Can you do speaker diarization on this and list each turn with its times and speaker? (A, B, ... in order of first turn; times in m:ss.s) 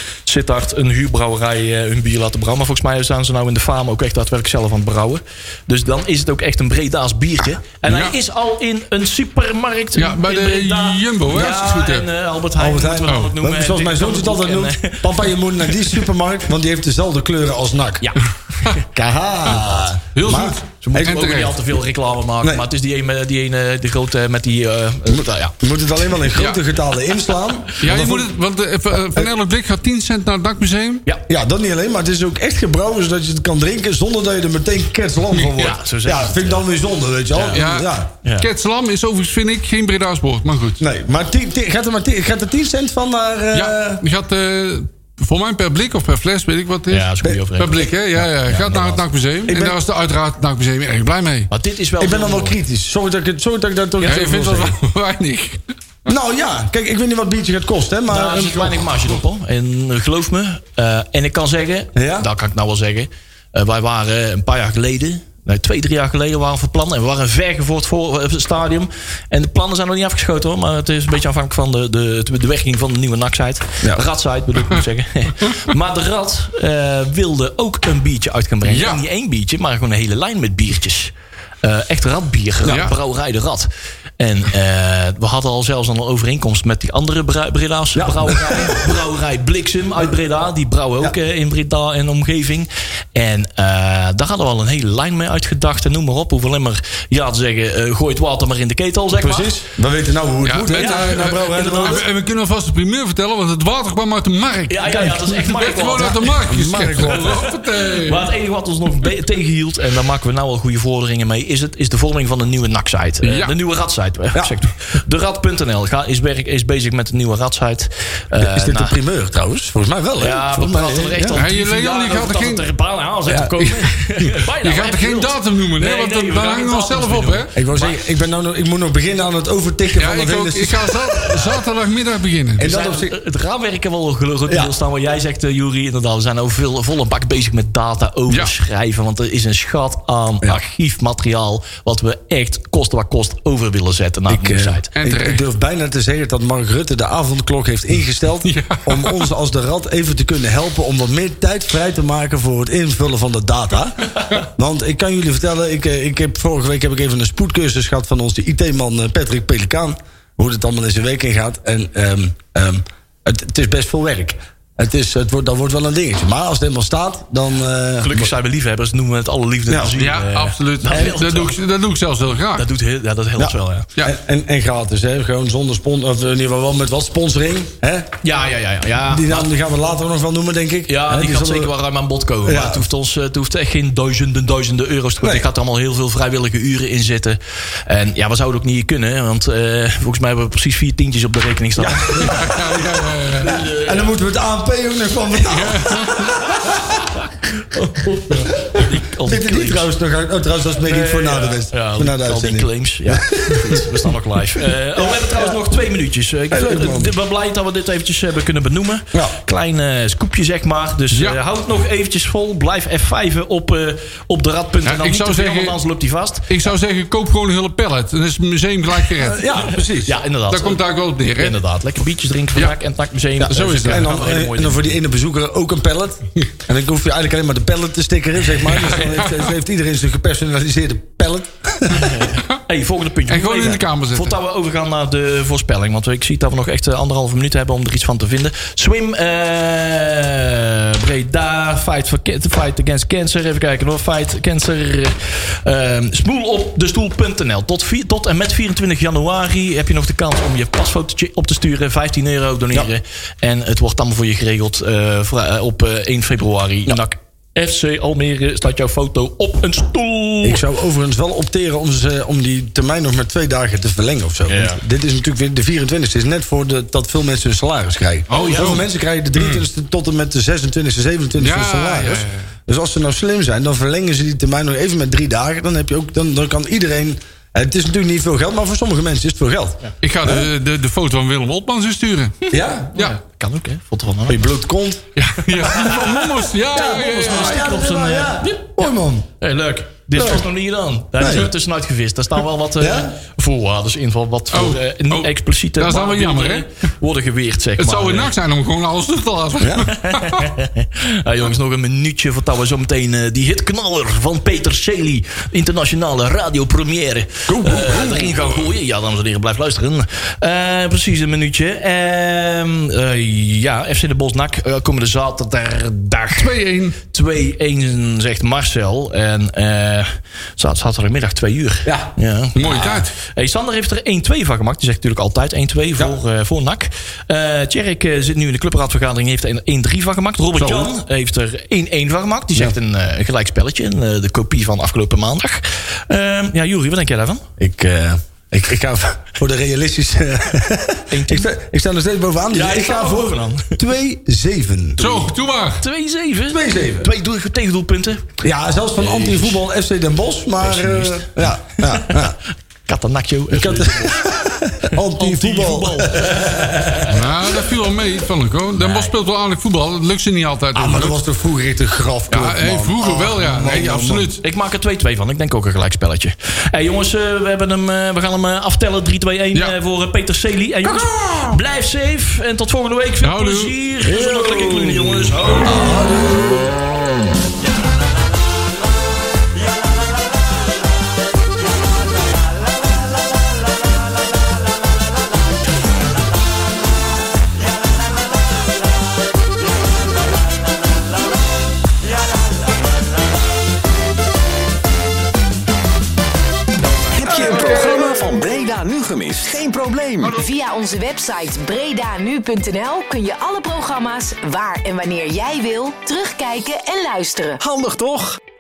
0:00.3-0:16.1 A
0:07.9-0:08.2 B
0:10.0-0:12.1 B
0:12.6-0:18.1 C
0:13.1-0:13.3 B
0:18.0-0:18.8 A
0:18.8-0:21.2 C
0:20.2-0:21.6 B
0:20.8-0:25.6 A
0:25.1-0:28.3 C
0:26.3-0:26.6 B
0:27.8-0:31.0 B
0:28.9-0:29.3 C
0:31.3-0:38.1 C
0:35.3-0:35.7 B
0:35.6-0:36.6 A
0:37.3-0:37.6 A
0:37.5-0:40.8 B
0:40.8-0:44.0 C
0:43.5-0:51.5 B
0:46.9-0:49.0 A
0:49.5-0:49.8 C
0:51.5-0:52.6 A
0:52.0-0:54.8 C
0:54.0-0:55.7 B
0:56.1-0:59.0 C
0:58.1-1:39.6 A
1:02.0-1:02.3 C
1:18.6-1:19.0 B
1:22.7-1:22.9 B
1:28.0-1:29.0 C
1:39.1-1:42.0 C
1:40.4-1:48.3 B
1:40.7-1:42.0 A
1:44.7-1:46.3 A
1:46.0-1:47.5 C
1:47.1-1:59.0 A
1:53.2-1:53.5 B
1:58.4-2:01.4 C
2:00.2-2:08.0 A
2:01.3-2:02.6 B
2:03.3-2:03.8 C
2:04.2-2:07.5 B
2:07.6-2:11.5 C
2:10.0-2:12.7 B
2:12.6-2:13.2 C
2:12.6-2:24.9 A
2:14.5-2:14.7 C
2:24.3-2:48.3 C
2:25.0-2:25.4 B
2:28.4-2:29.3 B
2:48.0-2:51.6 A
2:49.7-2:50.0 C
2:50.0-2:52.7 B
2:52.5-2:53.9 A
2:53.4-2:58.1 C
2:58.2-2:59.5 A
2:59.1-3:01.7 C
3:00.9-3:12.6 A
3:02.4-3:02.9 C
3:05.2-3:05.5 C
3:11.8-3:12.9 C
3:12.2-3:13.5 B
3:13.4-3:14.2 A
3:13.4-3:16.8 C
3:15.5-3:16.4 B
3:17.6-3:19.9 A
3:18.8-3:24.1 C
3:20.8-3:36.7 A
3:25.0-3:25.6 C
3:26.5-3:27.1 C
3:31.1-3:31.4 B
3:34.8-3:35.8 B
3:36.5-3:39.5 B
3:39.2-3:40.2 C
3:40.0-3:45.0 A
3:40.5-3:41.6 B
3:43.4-3:52.2 C
3:43.5-3:44.1 B
3:48.7-3:49.4 B
3:51.9-4:20.6 A
3:53.3-3:54.4 B
4:20.4-4:40.5 C
4:24.5-4:24.8 A
4:28.3-4:28.8 B
4:28.3-4:28.8 A
4:31.4-4:32.5 B
4:40.0-4:42.4 B
4:42.5-4:42.9 C
4:42.9-4:44.4 A
4:44.3-4:45.0 C
4:45.2-4:47.6 B
4:45.6-4:49.3 C
4:46.7-4:48.8 A
4:49.4-4:58.3 A
4:50.2-4:50.5 C
4:51.2-4:51.5 C
4:52.8-4:53.2 C
4:54.5-4:56.7 B
4:57.8-5:00.5 B
4:59.6-4:59.9 C
4:59.9-5:37.5 A
5:07.5-5:08.4 C
5:08.1-5:08.5 B
5:16.3-5:17.0 B
5:21.8-5:22.1 C
5:22.6-5:23.1 B
5:30.6-5:31.0 C
5:37.6-5:45.0 C
5:41.1-5:41.5 A
5:42.5-5:43.8 A
5:45.0-5:48.4 A
5:45.0-5:45.8 B
5:46.5-5:47.1 C
5:48.4-5:52.4 C
5:49.0-5:49.6 A
5:50.6-5:54.2 A
5:53.5-5:57.2 C
5:54.8-5:57.1 A
5:57.1-6:01.2 B
5:58.8-5:59.1 A
6:00.7-6:04.4 C
6:02.3-6:04.4 B
6:04.4-6:15.8 A
6:10.8-6:11.6 C
6:13.2-6:13.7 B
6:14.0-6:16.6 C
6:37.1-6:40.4 D
6:37.5-6:37.9 B
6:40.2-6:47.6 E
6:47.6-6:48.4 D